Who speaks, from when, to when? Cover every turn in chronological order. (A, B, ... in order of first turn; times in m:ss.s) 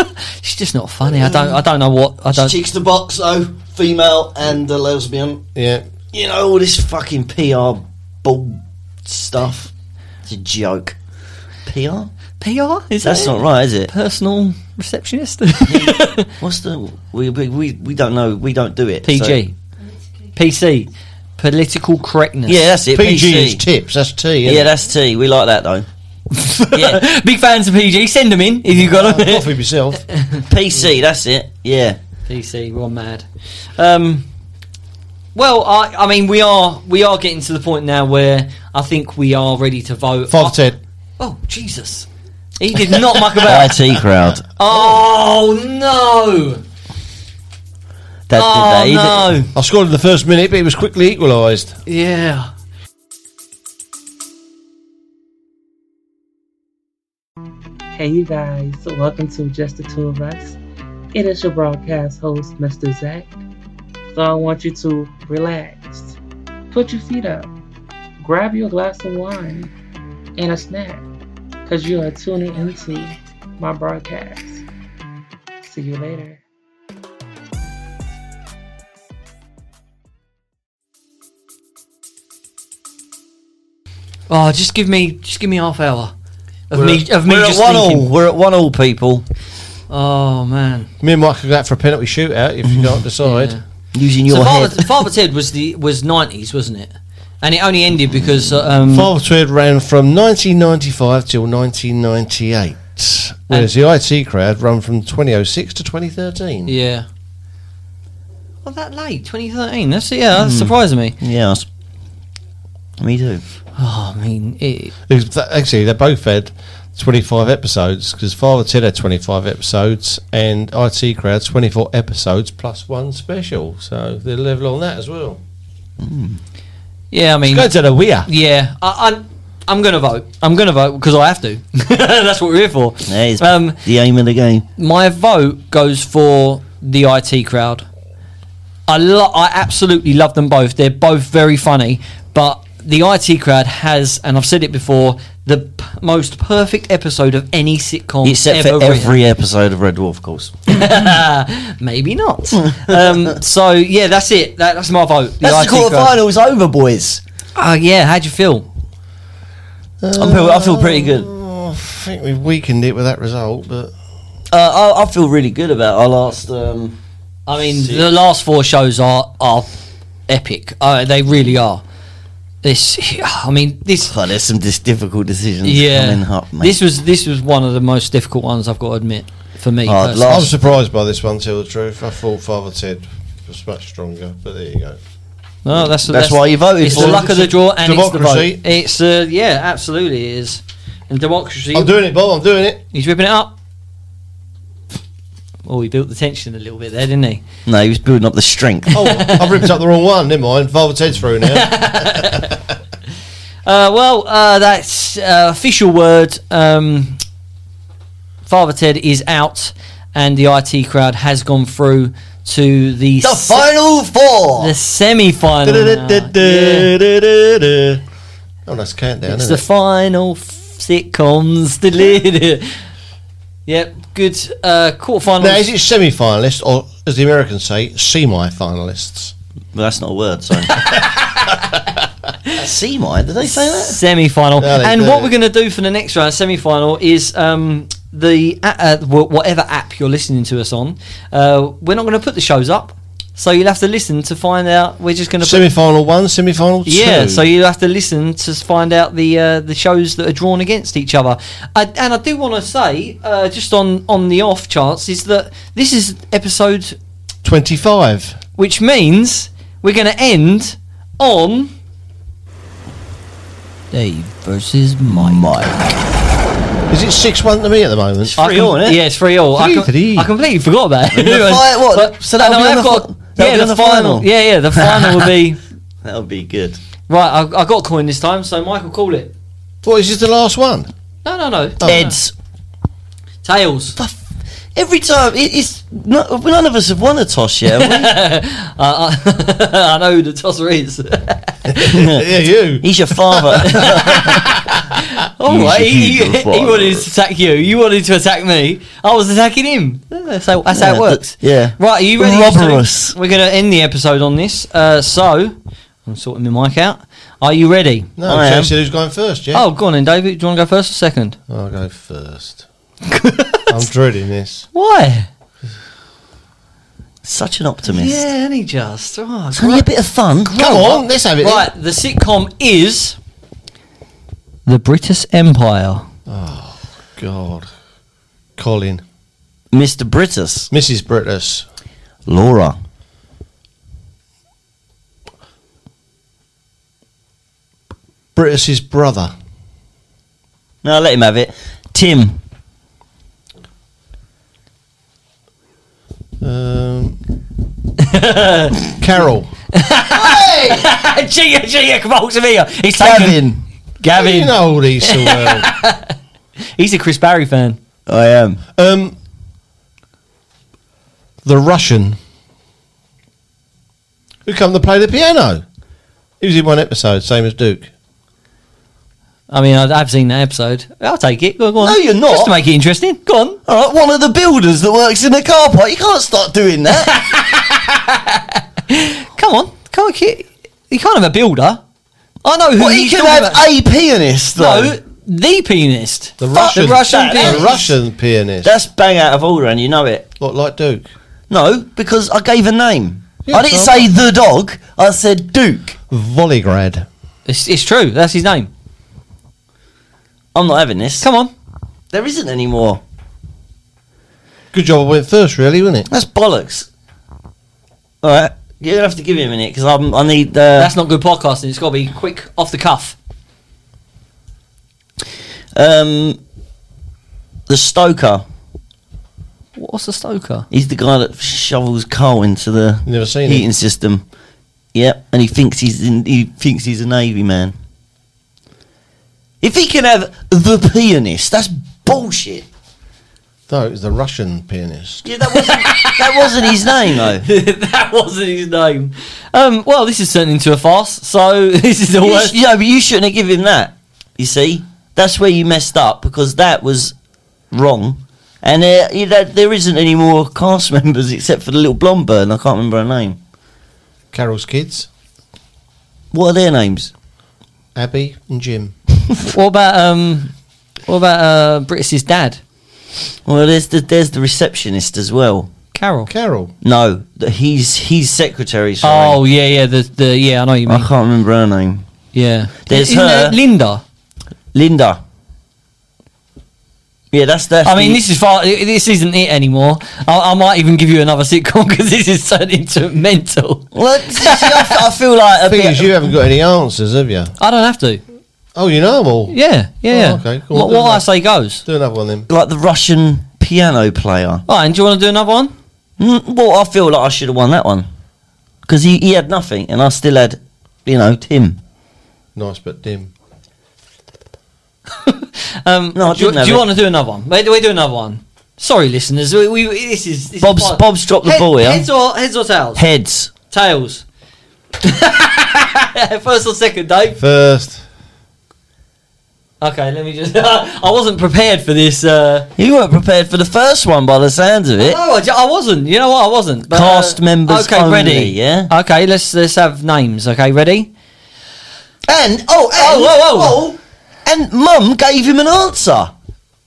0:00.4-0:02.6 A
0:02.3-0:05.4 B
0:05.6-0:05.9 C
0:06.1-0:09.7 B
0:10.3-0:11.0 B
0:11.7-0:12.1 B
0:12.4-0:16.3 A
0:13.0-0:13.9 B
0:15.7-0:19.4 B
0:19.0-0:19.6 A
0:20.3-0:22.6 A
0:22.5-0:23.6 B
0:22.9-0:24.7 C
0:24.4-0:25.9 B
0:26.4-0:29.5 A
0:26.7-0:27.0 B
0:28.8-0:30.0 C
0:30.1-0:30.4 A
0:30.5-0:32.0 B
0:32.3-0:34.3 A
0:35.4-0:40.6 A
0:40.3-0:40.8 C
0:41.2-0:42.1 A
0:42.6-0:43.8 A
0:43.4-0:44.4 B
0:44.6-0:46.6 A
0:44.7-0:45.0 C
0:48.3-0:49.4 B
0:48.3-0:49.5 A
0:49.5-0:51.8 C
0:51.9-0:52.5 A
0:57.9-1:00.6 D
1:01.1-1:03.4 D
1:04.1-1:06.2 D
1:06.7-1:07.5 D
1:08.2-1:09.7 D
1:10.4-1:11.1 D
1:11.7-1:14.6 D
1:15.6-1:16.4 D
1:24.3-1:26.1 A
1:26.7-1:28.1 A
1:26.7-1:29.2 B
1:29.9-1:30.9 A
1:31.0-1:33.6 C
1:33.2-1:33.6 A
1:33.9-1:35.0 B
1:34.3-1:39.1 A
1:38.9-1:46.7 C
1:46.7-1:47.1 A
1:48.6-1:51.2 A
1:50.4-1:51.7 B
1:53.0-1:53.4 B
1:53.8-1:54.9 A
1:55.1-2:05.4 C
2:06.0-2:06.4 B
2:07.1-2:07.7 A
2:07.4-2:08.3 C
2:08.2-2:13.8 A
2:13.1-2:14.7 B
2:14.8-2:17.9 A
2:18.9-2:29.2 A
2:28.2-2:30.7 B
2:30.7-2:36.2 A
2:32.5-2:33.4 B
2:35.4-2:37.2 B
2:37.6-2:38.7 A
2:40.0-2:43.9 C
2:40.2-2:41.3 B
2:44.5-2:47.0 B
2:47.5-2:49.7 A
2:47.6-2:48.1 B
2:50.3-2:51.8 A
2:52.6-2:54.1 A
2:54.1-2:56.8 B
2:55.6-3:00.5 A
2:59.9-3:00.5 B
3:00.3-3:05.0 C
3:05.6-3:11.9 A
3:06.1-3:07.2 B
3:06.9-3:08.6 C
3:11.7-3:12.8 C
3:12.9-3:13.5 A
3:15.6-3:17.4 A
3:17.7-3:19.1 B
3:18.9-3:19.6 A
3:19.0-3:22.4 C
3:21.5-3:22.5 A
3:23.6-3:27.2 A
3:28.5-3:33.7 A
3:33.2-3:34.7 B
3:34.6-3:36.9 A
3:35.7-3:38.0 B
3:38.7-3:39.6 C
3:39.3-3:42.7 A
3:43.7-3:45.6 A
3:45.4-3:49.3 C
3:49.7-3:51.0 B
3:52.5-3:54.0 B
3:53.5-4:05.7 A
3:54.6-3:55.3 C
4:05.4-4:07.4 C
4:06.9-4:17.0 A
4:17.4-4:18.4 C
4:18.6-4:21.7 A
4:23.9-4:25.5 A
4:25.0-4:25.8 B
4:26.9-4:28.4 C
4:28.3-4:29.0 B
4:28.4-4:35.6 A
4:29.6-4:30.3 C
4:31.1-4:35.3 B
4:36.0-4:36.8 B
4:37.1-4:39.3 A
4:39.8-4:40.9 C
4:41.2-4:42.2 A
4:41.8-4:42.1 C
4:41.8-4:42.3 B
4:43.4-4:44.0 A
4:44.8-4:48.1 B
4:47.8-4:52.0 A
4:51.9-4:53.9 C
4:51.9-4:52.3 B
4:52.8-4:54.4 B
4:53.6-5:08.1 A
4:55.5-4:57.1 B
5:00.7-5:03.2 B
5:08.2-5:09.7 C
5:08.2-5:08.7 B
5:09.5-5:11.4 A
5:11.5-5:12.7 C
5:13.1-5:13.8 A
5:13.7-5:14.7 C
5:14.7-5:15.3 A
5:17.2-5:18.2 B
5:17.8-5:19.9 A
5:19.5-5:20.6 B
5:20.4-5:23.2 A
5:20.5-5:21.7 C
5:24.7-5:26.1 A
5:26.3-5:27.7 C
5:28.6-5:29.0 C
5:29.7-5:30.7 B
5:30.7-5:31.7 C
5:32.3-5:32.8 B
5:38.4-5:39.3 C
5:40.8-5:42.4 B
5:46.4-5:47.2 C
5:48.0-5:48.8 A
5:49.0-5:49.5 C
5:49.7-5:53.4 A
5:53.0-5:53.6 B
5:54.0-5:56.1 A
5:54.1-5:55.7 C
5:56.8-5:57.8 A
5:58.1-5:58.6 B
5:58.8-5:59.2 C
6:01.4-6:02.2 C
6:04.5-6:05.6 C
6:06.4-6:07.9 C
6:09.5-6:13.6 A
6:11.8-6:12.6 B
6:13.7-6:17.2 B
6:16.9-6:21.8 A
6:22.4-6:23.6 A
6:22.8-6:25.0 B
6:24.6-6:27.9 A
6:26.4-6:28.8 C
6:26.5-6:27.9 B
6:28.6-6:30.3 B
6:30.4-6:31.1 C
6:31.5-6:36.0 B
6:33.5-6:34.1 C
6:36.1-6:37.1 C
6:37.5-6:38.7 A
6:40.5-6:41.2 B
6:41.2-6:41.5 A
6:42.1-6:43.0 B
6:44.7-6:46.1 C
6:46.1-6:46.9 B
6:48.2-6:50.9 B
6:50.8-6:53.2 A
6:55.7-6:56.4 B
6:57.7-6:58.4 B
6:59.8-7:00.7 A
7:00.7-7:04.2 B
7:03.0-7:03.7 C
7:04.9-7:07.7 B
7:09.6-7:12.7 B
7:13.7-7:15.3 C
7:15.2-7:17.5 B
7:15.5-7:22.6 A
7:22.2-7:27.1 B
7:27.7-7:33.4 B
7:34.3-7:35.1 C
7:36.3-7:37.1 B
7:38.0-7:39.0 C
7:39.4-7:40.5 A
7:41.1-7:42.6 A
7:43.5-7:45.7 B
7:46.0-7:46.3 A
7:46.3-7:46.7 C
7:46.8-7:49.4 B
7:49.0-7:51.1 A
7:50.9-7:52.1 B
7:52.3-7:54.0 A
7:52.9-7:53.6 B
7:54.7-7:55.2 B
7:57.3-7:58.2 B
7:57.8-8:05.0 A
8:03.9-8:06.1 B
8:05.6-8:07.5 C
8:07.6-8:08.2 A
8:08.8-8:09.6 C
8:09.5-8:11.8 A
8:10.1-8:11.3 C
8:11.8-8:12.5 C
8:12.5-8:14.6 B
8:14.7-8:15.7 A
8:16.2-8:18.1 B
8:18.9-8:21.8 B
8:22.6-8:23.3 C
8:25.2-8:33.0 A
8:26.2-8:26.9 B
8:30.6-8:32.1 B
8:33.0-8:33.5 B
8:33.7-8:34.2 A
8:35.0-8:37.4 A
8:37.4-8:38.0 C
8:39.8-8:42.7 A
8:42.8-8:45.2 B
8:45.0-8:51.1 A
8:46.9-8:48.9 B
8:52.3-8:56.3 B
8:53.0-8:53.8 A